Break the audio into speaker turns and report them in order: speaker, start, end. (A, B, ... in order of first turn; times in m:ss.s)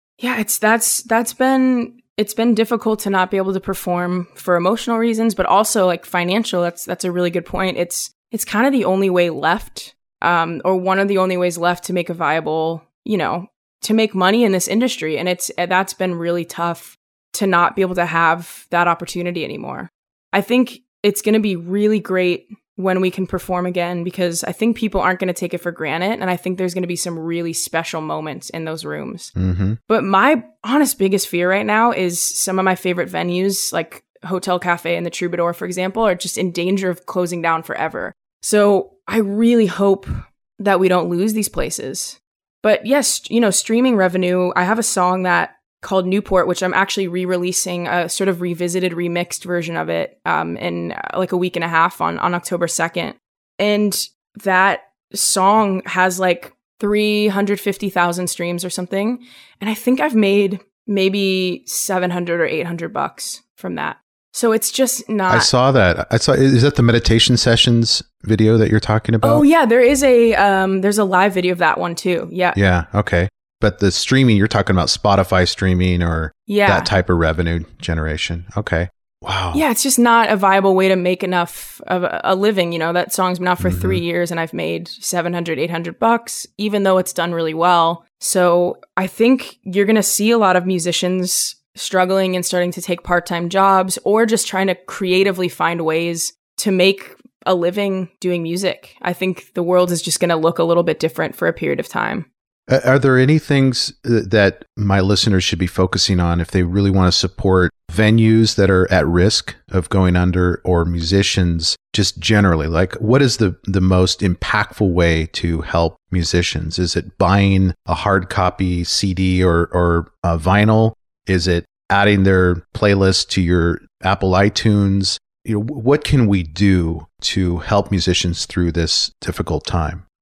0:00.2-0:29.3 A
0:29.4-0:29.8 B
0:29.9-1:05.5 A
1:05.3-1:09.4 B
1:09.2-1:12.6 A
1:12.6-1:19.6 B
1:16.5-1:16.9 A
1:19.5-1:42.3 A
1:23.6-1:24.0 B
1:42.7-2:10.0 B